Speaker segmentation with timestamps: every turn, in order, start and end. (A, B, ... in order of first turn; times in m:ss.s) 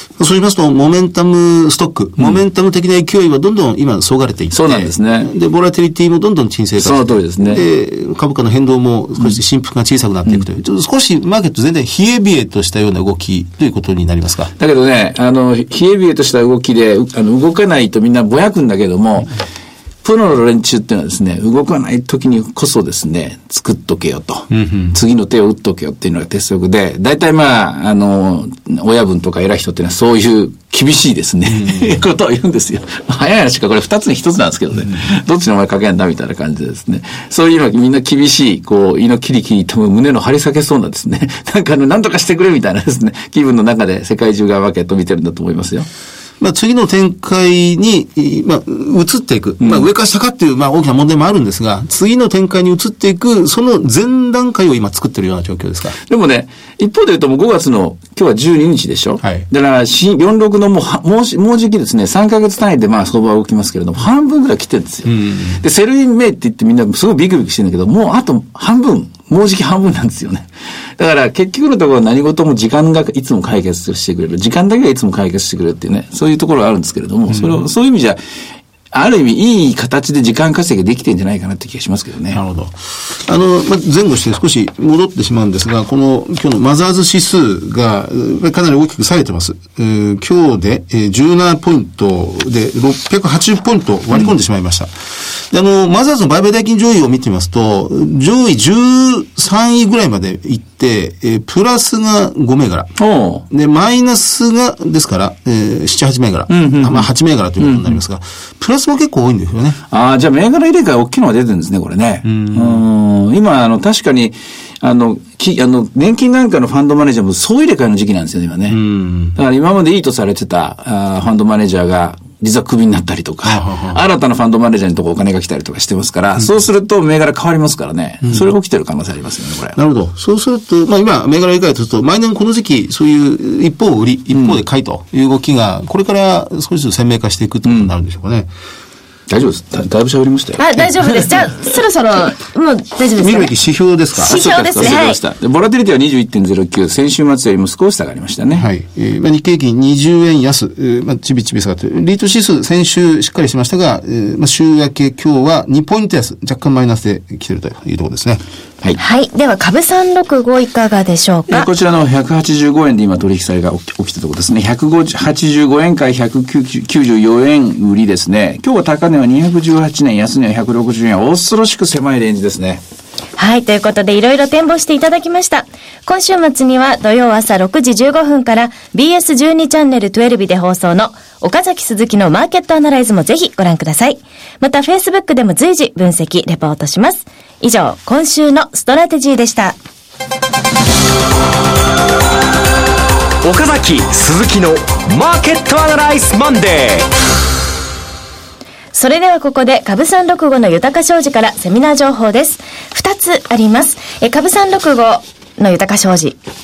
0:00.2-0:14.5 A
0:04.5-0:05.3 B
0:06.8-0:07.6 B
0:14.6-0:19.3 B
0:20.0-0:45.9 B
0:24.5-0:25.0 A
0:31.5-0:32.0 A
0:46.4-0:56.0 A
0:49.6-0:49.9 B
0:56.1-1:18.2 B
1:05.1-1:05.6 A
1:17.3-1:17.6 A
1:18.9-1:22.4 B
1:22.3-1:34.9 A
1:35.5-1:42.9 A
1:43.0-1:43.4 B
1:43.5-1:49.8 A
1:46.5-1:47.1 B
1:47.6-1:48.0 B
1:49.9-1:58.8 B
1:52.2-1:52.8 A
1:58.7-1:59.4 A
1:59.4-2:09.8 B
2:03.4-2:04.0 A
2:09.8-2:18.5 A
2:14.3-2:14.6 B
2:17.6-2:17.9 B
2:19.3-2:20.6 B
2:20.6-2:23.5 C
2:23.2-2:24.4 A
2:24.2-2:25.2 C
2:24.2-2:28.7 B
2:28.6-2:38.4 A
2:39.0-2:41.7 C
2:41.5-2:52.8 B
2:53.4-3:09.8 C
3:13.4-3:17.1 D
3:18.9-3:26.4 C